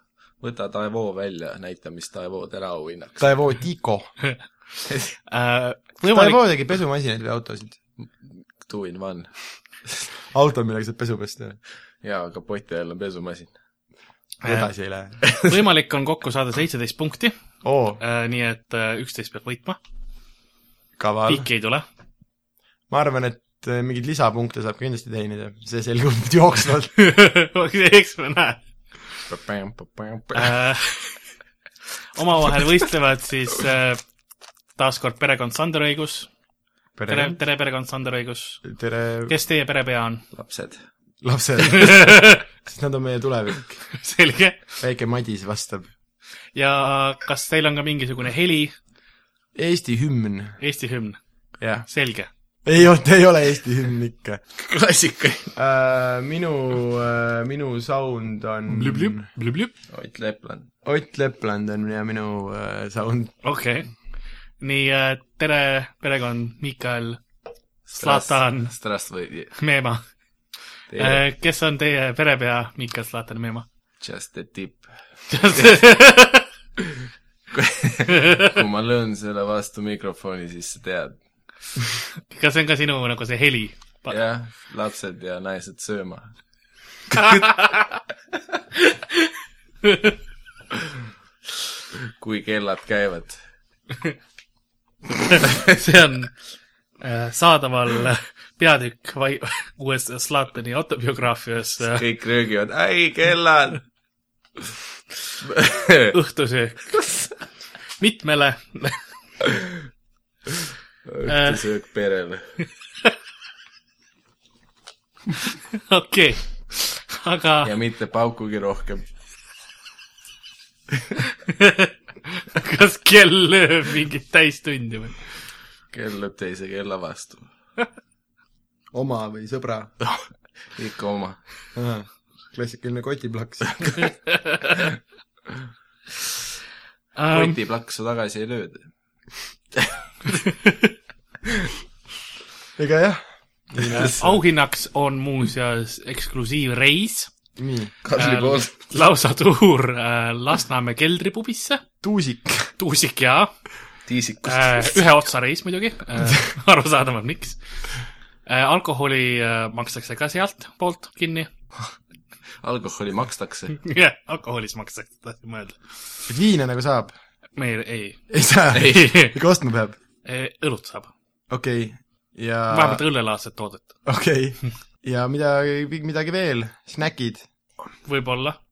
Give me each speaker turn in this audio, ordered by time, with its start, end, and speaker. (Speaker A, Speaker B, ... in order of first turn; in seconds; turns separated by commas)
Speaker A: 0.4-3.2, Speaker B: 3.2-4.2, Speaker A: 4.9-5.2, Speaker C: 5.3-6.4, Speaker B: 6.0-7.8, Speaker A: 8.0-9.3, Speaker B: 10.3-11.6, Speaker A: 12.0-13.5, Speaker C: 14.4-14.7, Speaker B: 14.4-15.3, Speaker C: 15.3-17.4, Speaker B: 17.6-18.0, Speaker C: 18.0-19.8, Speaker B: 21.0-21.5, Speaker C: 21.3-21.9, Speaker B: 22.9-26.9, Speaker C: 27.0-28.6, Speaker A: 29.3-30.6, Speaker C: 30.3-31.1, Speaker C: 32.2-34.0, Speaker C: 34.8-36.3, Speaker B: 37.0-37.4, Speaker C: 37.1-38.6, Speaker B: 38.6-39.3, Speaker C: 39.3-40.2, Speaker A: 40.3-40.8, Speaker B: 41.2-43.9, Speaker C: 41.6-42.4, Speaker C: 44.0-44.6, Speaker B: 44.8-45.9, Speaker C: 46.5-48.8, Speaker B: 49.5-50.6, Speaker C: 50.6-51.2, Speaker B: 51.6-51.9, Speaker C: 51.9-52.3, Speaker B: 52.6-54.4, Speaker A: 54.6-55.5, Speaker B: 55.6-59.3, Speaker C: 58.7-59.7, Speaker A: 59.9-60.7, Speaker B: 60.8-63.3, Speaker C: 63.4-63.9, Speaker C: 64.6-67.2, Speaker A: 67.9-69.5, Speaker C: 68.0-68.7, Speaker C: 69.6-70.0, Speaker A: 70.9-71.2, Speaker C: 71.0-73.7, Speaker A: 74.0-74.9, Speaker C: 75.3-76.5, Speaker A: 75.5-75.8, Speaker A: 77.5-81.2, Speaker C: 78.2-78.5, Speaker C: 82.3-84.2, Speaker A: 84.1-86.3, Speaker A: 87.1-87.4, Speaker C: 87.2-87.8, Speaker C: 89.8-90.1, Speaker A: 92.2-93.4, Speaker C: 95.3-96.3, Speaker A: 95.4-95.8, Speaker C: 97.0-102.0, Speaker A: 101.9-103.8, Speaker A: 105.4-106.2, Speaker C: 106.1-106.9, Speaker C: 108.0-109.0, Speaker A: 111.1-112.6, Speaker C: 111.3-111.6, Speaker C: 115.8-117.7, Speaker A: 117.6-119.0, Speaker C: 121.5-125.2, Speaker A: 125.9-127.5, Speaker B: 128.9-129.9, Speaker A: 130.8-131.4, Speaker B: 131.8-133.9, Speaker C: 134.0-134.8, Speaker C: 137.2-137.6, Speaker A: 137.3-138.9, Speaker C: 140.4-140.9, Speaker B: 142.8-144.3, Speaker C: 143.9-147.3, Speaker B: 147.6-147.9, Speaker A: 148.0-148.7, Speaker C: 148.2-151.8, Speaker B: 152.0-152.7, Speaker C: 152.8-153.5, Speaker A: 154.1-155.0, Speaker C: 154.4-157.6, Speaker C: 158.5-161.5, Speaker A: 162.6-163.8, Speaker C: 163.8-165.8, Speaker B: 166.3-167.1, Speaker C: 167.6-168.2, Speaker B: 168.3-170.0, Speaker A: 168.7-169.1, Speaker C: 168.8-169.3, Speaker C: 170.2-171.1, Speaker B: 171.5-173.0, Speaker C: 172.7-173.9, Speaker B: 174.1-177.4, Speaker C: 178.1-178.6